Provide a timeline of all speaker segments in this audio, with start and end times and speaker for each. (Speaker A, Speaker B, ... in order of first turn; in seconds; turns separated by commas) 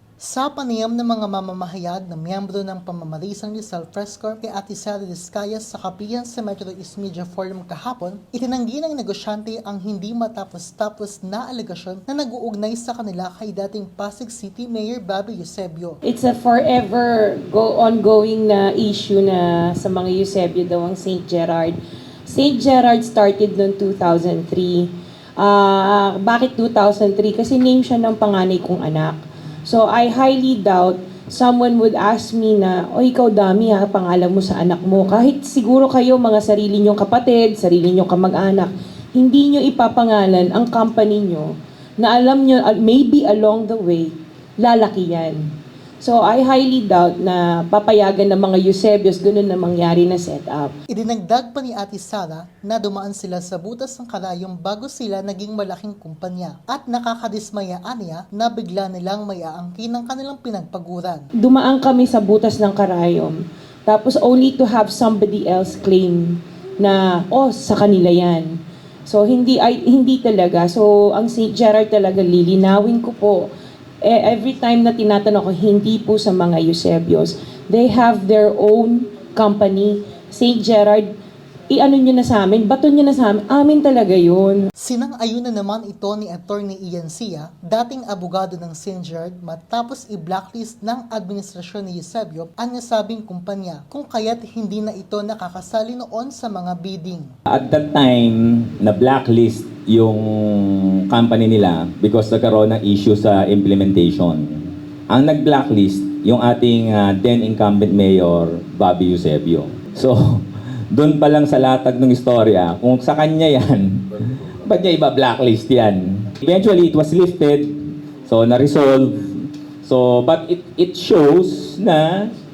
Speaker A: 0.2-16.0, Speaker B: 16.1-50.8, Speaker A: 50.9-61.3, Speaker B: 61.4-68.5, Speaker B: 69.1-73.5, Speaker B: 74.0-81.1, Speaker B: 81.7-84.7, Speaker A: 84.8-97.3, Speaker C: 97.5-122.3